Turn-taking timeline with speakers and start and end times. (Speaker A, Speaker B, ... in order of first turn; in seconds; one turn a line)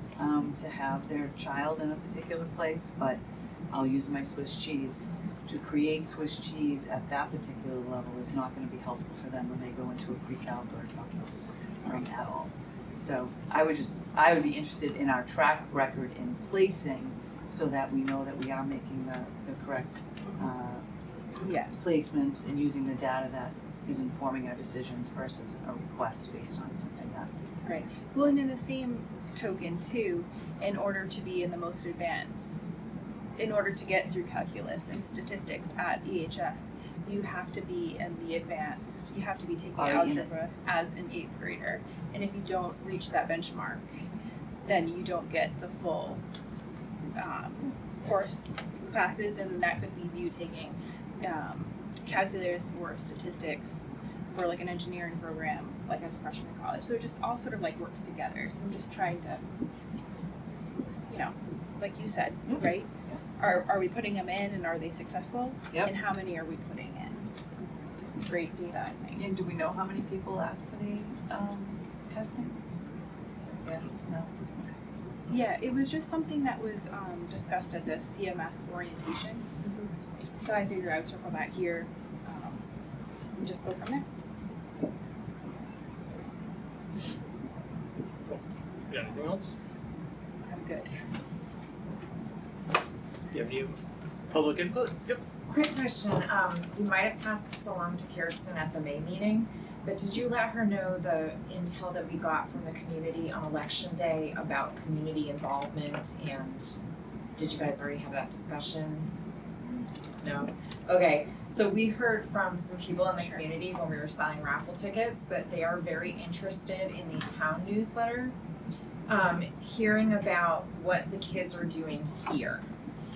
Speaker A: 0.2-3.2
Speaker A: 3.7-20.8
Speaker B: 21.4-21.9
Speaker A: 21.7-27.3
Speaker B: 27.6-32.6
Speaker B: 33.4-43.8
Speaker A: 39.8-40.3
Speaker B: 44.6-46.2
Speaker B: 47.1-53.8
Speaker B: 54.3-59.4
Speaker B: 61.1-67.3
Speaker A: 62.5-63.2
Speaker B: 68.0-69.2
Speaker A: 69.2-72.5
Speaker A: 73.6-74.3
Speaker B: 75.3-79.5
Speaker B: 80.4-82.6
Speaker B: 83.4-84.0
Speaker C: 88.2-89.5
Speaker B: 90.4-90.9
Speaker C: 93.3-93.8
Speaker C: 94.3-95.2
Speaker D: 95.5-106.8
Speaker D: 107.3-109.1
Speaker D: 110.2-118.3
Speaker D: 119.1-122.6